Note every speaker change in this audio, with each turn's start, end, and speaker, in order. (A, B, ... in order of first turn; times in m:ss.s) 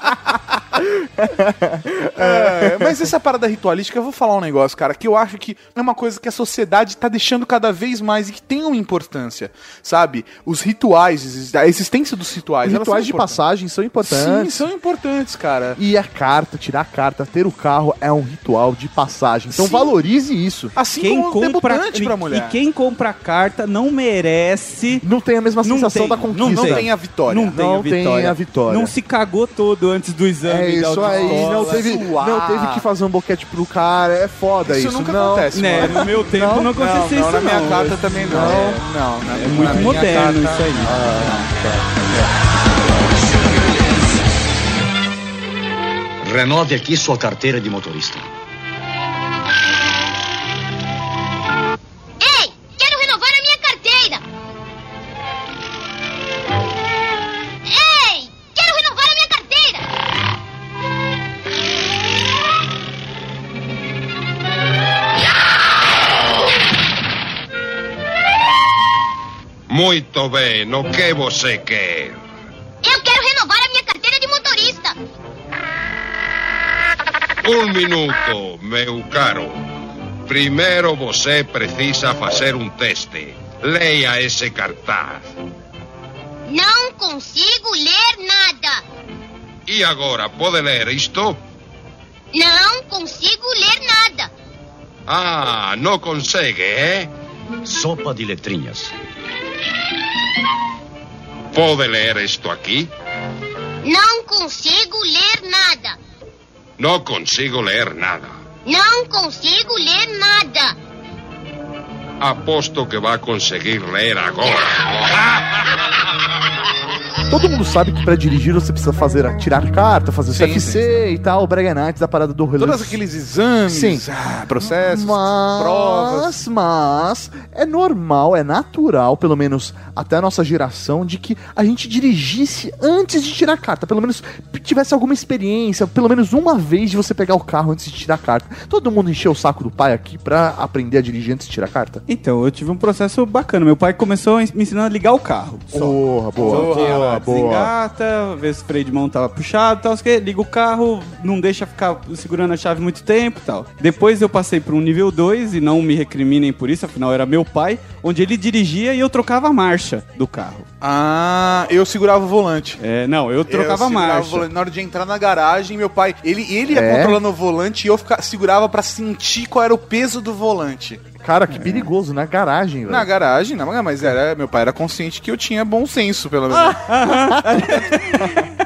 0:00.8-0:03.1 A
0:02.2-0:13.4 B
0:12.6-0:14.6 A
0:14.0-0:15.8 B
0:15.8-0:20.7 A
0:19.5-0:19.9 B
0:20.8-0:22.6 B
0:21.0-0:25.0 C
0:25.0-0:26.9 A
0:25.6-0:31.9 C
0:26.4-0:27.6 B
0:27.5-0:28.9 A
0:30.4-0:36.7 A
0:31.0-0:32.8 B
0:34.6-0:41.3 B
0:35.5-0:41.1 C
0:38.3-0:38.8 A
0:40.8-0:42.0 A
0:46.2-0:48.2 D
0:52.2-0:54.2 E
0:57.6-0:59.9 E
1:09.7-1:12.2 F
1:12.8-1:15.0 E
1:17.4-1:19.6 F
1:20.3-1:25.3 F
1:26.5-1:28.8 E
1:29.7-1:31.4 F
1:32.3-1:34.3 E
1:35.1-1:37.1 F
1:37.6-1:38.9 D
1:41.5-1:42.9 F
1:43.8-1:46.0 E
1:46.8-1:48.4 F
1:48.6-1:50.7 E
1:52.2-1:55.5 F
1:57.3-2:03.0 A
2:00.3-2:00.9 B
2:02.6-2:06.4 B
2:03.7-2:04.0 A
2:04.6-2:22.0 A
2:22.1-2:25.9 C
2:25.7-2:27.7 A
2:26.4-2:27.2 B
2:26.4-2:40.6 C
2:40.8-2:42.8 B
2:42.8-2:44.4 C
2:43.5-2:51.1 B
2:46.7-2:47.2 A
2:51.2-2:53.1 A
2:51.5-2:51.8 C
2:52.9-2:56.8 B
2:56.6-2:57.8 A
2:56.8-2:58.4 C